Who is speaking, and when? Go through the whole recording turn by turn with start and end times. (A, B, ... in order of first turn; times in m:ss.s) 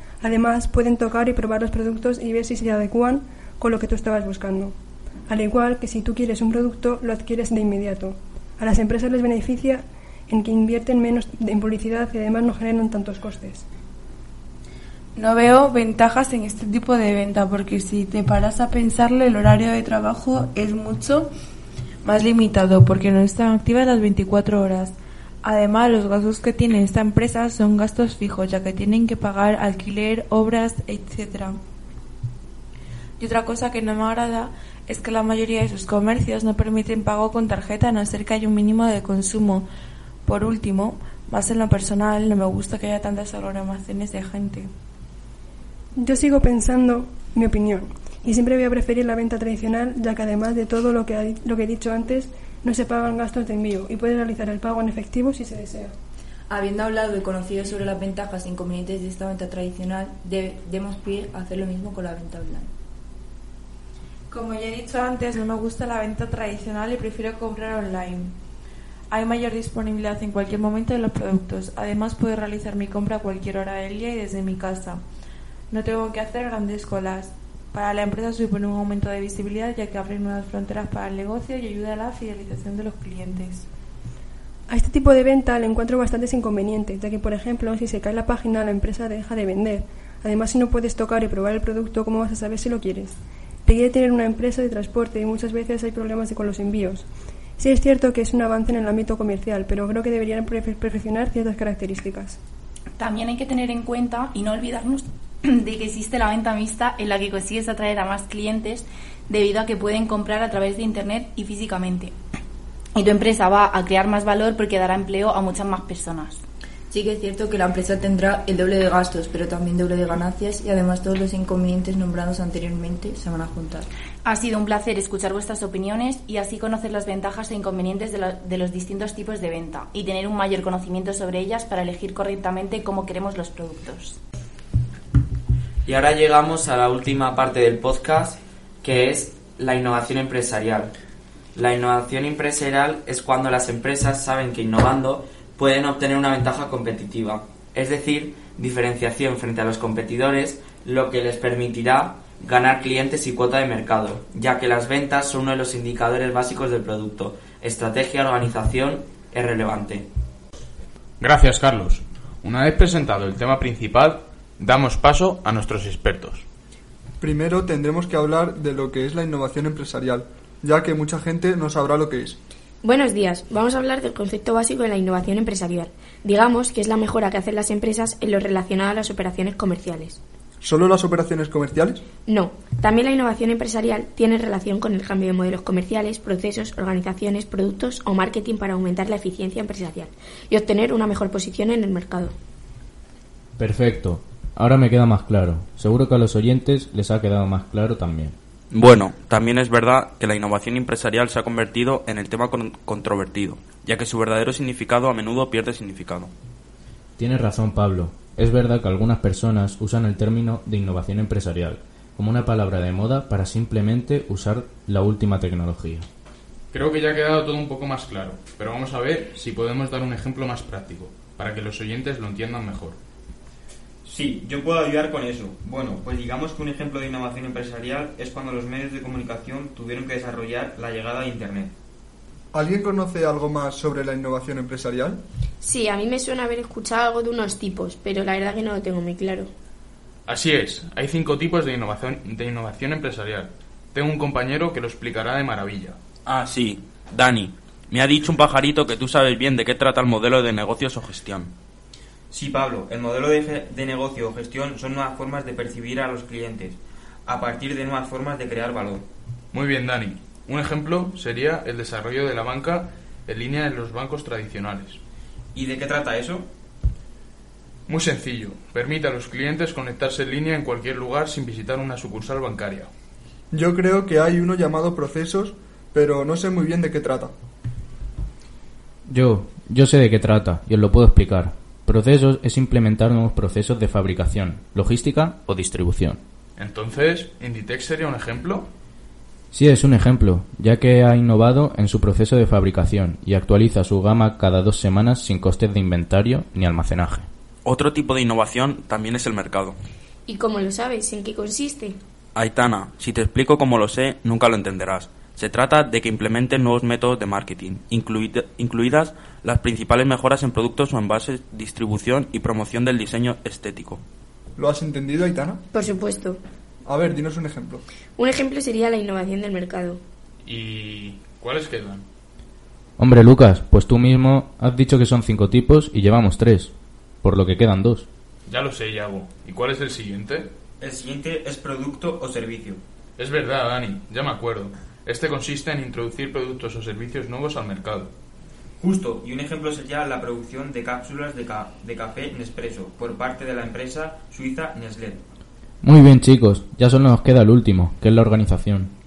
0:00.2-0:04.7 A
0:05.3-0:13.6 A
0:15.2-0:21.3 B
0:22.0-0:31.6 B
0:33.2-0:39.7 B
0:40.2-0:44.7 B
0:46.0-0:55.9 A
0:56.5-1:02.7 C
1:04.3-1:08.3 B
1:09.1-1:15.0 B
1:15.7-1:23.7 B
1:24.7-1:37.1 A
1:37.6-1:42.4 A
1:43.0-1:52.1 D
1:53.0-1:56.4 D
1:56.9-2:03.9 C
2:04.2-2:14.2 D
2:15.8-2:20.9 E
2:21.6-2:40.1 E
2:41.2-2:46.4 F
2:47.2-2:52.4 G
2:52.8-3:00.2 H
3:00.6-3:02.0 G
3:02.2-3:12.3 H
3:13.6-3:18.4 I
3:18.7-3:26.3 J
3:27.2-3:36.1 I
3:36.7-3:43.0 F
3:44.0-3:51.7 K
3:52.5-3:55.2 G
3:55.6-3:59.5 H
4:00.3-4:06.0 F
4:06.2-4:11.5 J
4:12.3-4:19.0 K
4:19.5-4:25.0 F
4:25.5-4:26.5 K
4:27.9-4:32.9 F
4:33.5-4:37.3 G
4:39.1-4:46.2 I
4:46.6-4:48.7 F
4:49.5-4:57.3 I
4:57.6-4:59.8 J
5:00.3-5:02.0 H
5:02.3-5:14.0 J
5:14.6-5:15.6 G
5:15.7-5:16.4 H
5:16.8-5:17.8 G
5:18.2-5:20.0 H
5:20.4-5:22.0 F
5:23.0-5:28.1 I
5:28.5-5:30.5 F
5:30.8-5:32.8 K
5:33.2-5:38.1 F
5:38.8-5:45.2 K
5:45.8-5:48.9 I